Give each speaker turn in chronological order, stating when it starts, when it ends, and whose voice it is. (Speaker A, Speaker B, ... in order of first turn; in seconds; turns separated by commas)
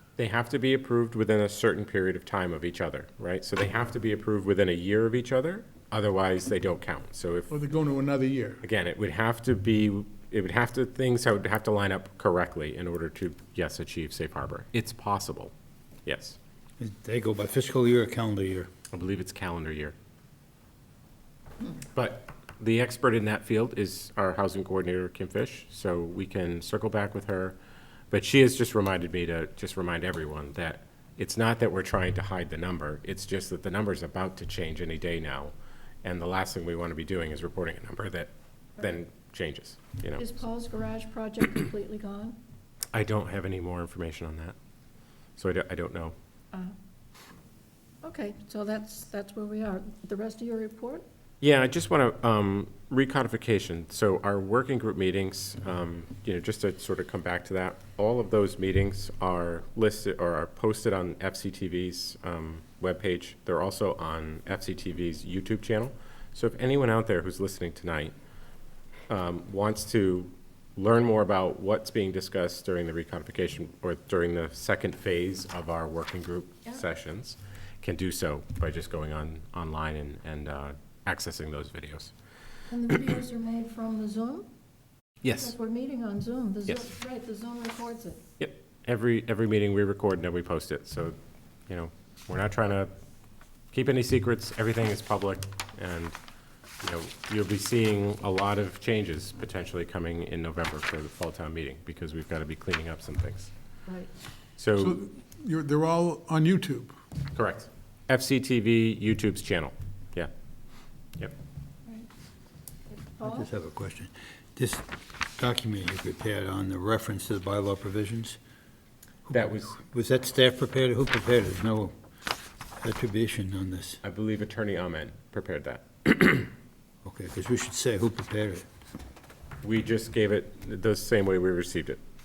Speaker A: 0.2-7.5, Speaker B: 7.5-8.6, Speaker A: 8.6-15.5, Speaker A: 16.1-16.4, Speaker C: 16.8-18.7, Speaker A: 18.9-19.9, Speaker A: 21.9-27.6, Speaker A: 28.1-35.5, Speaker A: 36.0-40.3, Speaker D: 40.2-42.4, Speaker A: 42.9-44.5, Speaker A: 45.4-46.1, Speaker D: 48.0-51.0, Speaker A: 51.4-68.1, Speaker A: 69.1-82.1, Speaker D: 82.7-84.5, Speaker A: 85.2-85.5, Speaker D: 85.3-88.2, Speaker A: 88.4-91.2, Speaker A: 91.7-92.9, Speaker A: 93.7-96.2, Speaker A: 96.8-103.5, Speaker A: 104.6-105.0, Speaker B: 104.7-106.9, Speaker A: 107.3-110.3, Speaker D: 112.9-113.5, Speaker C: 113.2-118.4, Speaker C: 119.3-121.9, Speaker A: 119.3-119.8, Speaker C: 122.8-124.0, Speaker A: 124.0-126.5, Speaker C: 127.0-128.7, Speaker A: 129.6-132.0